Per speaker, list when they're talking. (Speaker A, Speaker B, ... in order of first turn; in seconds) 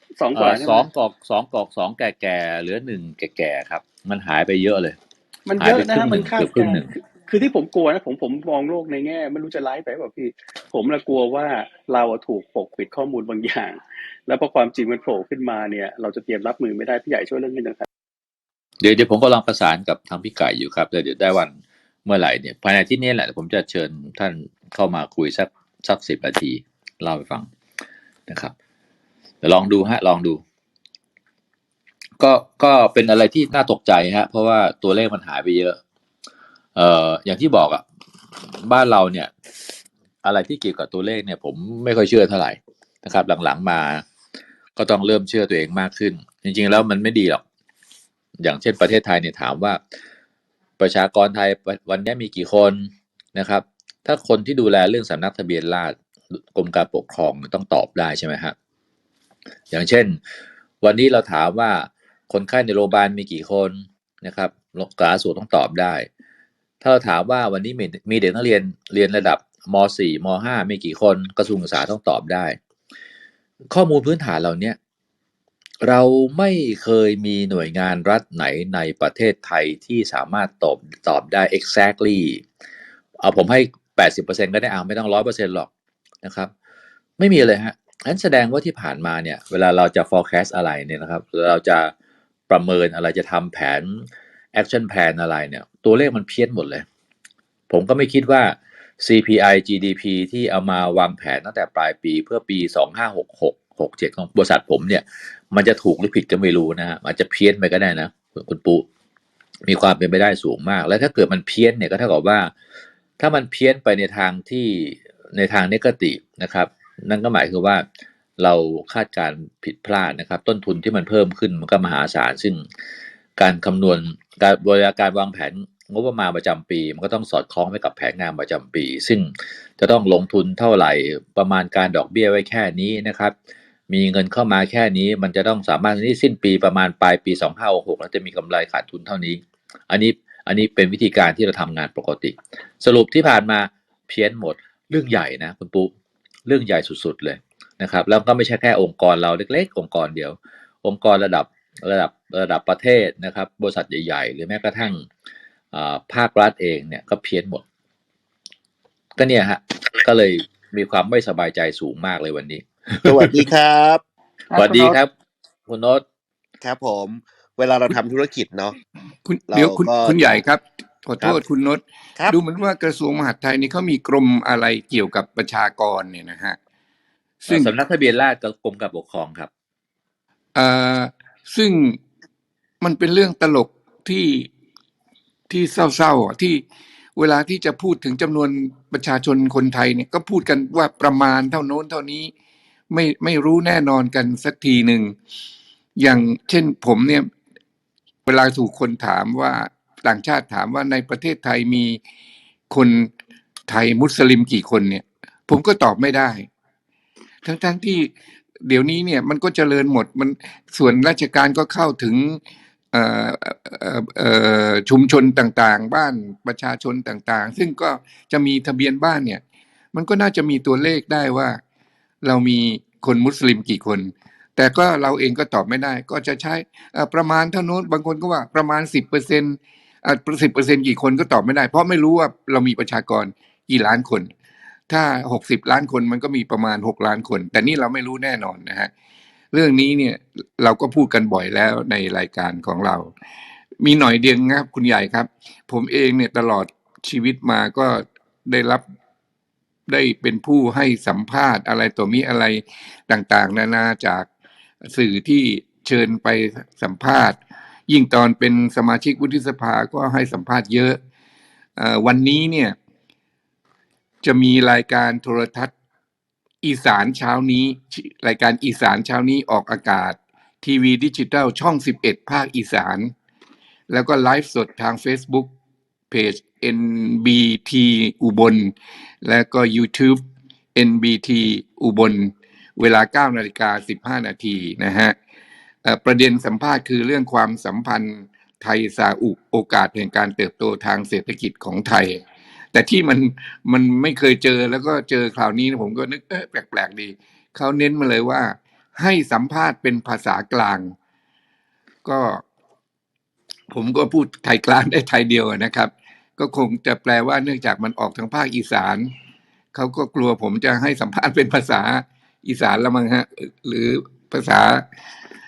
Speaker A: 0.2-0.9, 5.5-17.9, 164.5-165.0
Speaker B: 0.3-5.0, 5.6-6.9, 18.8-27.5, 28.3-28.5, 29.4-30.4, 32.2-35.8, 36.8-37.8, 38.4-39.3, 40.2-44.0, 44.8-47.4, 48.4-49.8, 50.8-58.5, 59.7-60.2, 60.8-66.1, 66.8-72.6, 73.7-74.8, 75.8-82.4, 83.2-85.7, 86.2-86.5, 87.2-91.9, 92.5-96.8, 97.7-108.8, 109.7-112.5, 113.2-117.9, 118.4-122.7, 123.4-133.4, 133.9-145.9, 146.5-155.1, 155.7-157.6, 159.2-163.4, 164.5-165.1, 165.7-166.0, 177.5-179.5
Speaker C: 163.1-164.0, 166.6-168.7, 169.5-170.4
Speaker D: 169.2-176.6, 177.4-177.7, 180.6-182.0, 182.8-184.5, 185.5-186.6, 187.2-192.3, 192.9-195.2, 196.0-197.3, 198.3-202.0, 202.7-203.1, 203.7-206.5, 207.4-208.1, 208.7-212.4, 212.9-219.4, 219.9-221.6, 222.2-234.3, 234.9-238.9, 239.5-243.1, 243.8-248.8, 249.9-254.3, 254.8-261.0, 261.8-262.8, 264.2-265.7, 266.6-273.1, 273.9-275.5, 276.1-280.2, 280.8-285.2, 285.8-300.9, 302.0-302.4, 303.7-309.1, 309.7-314.9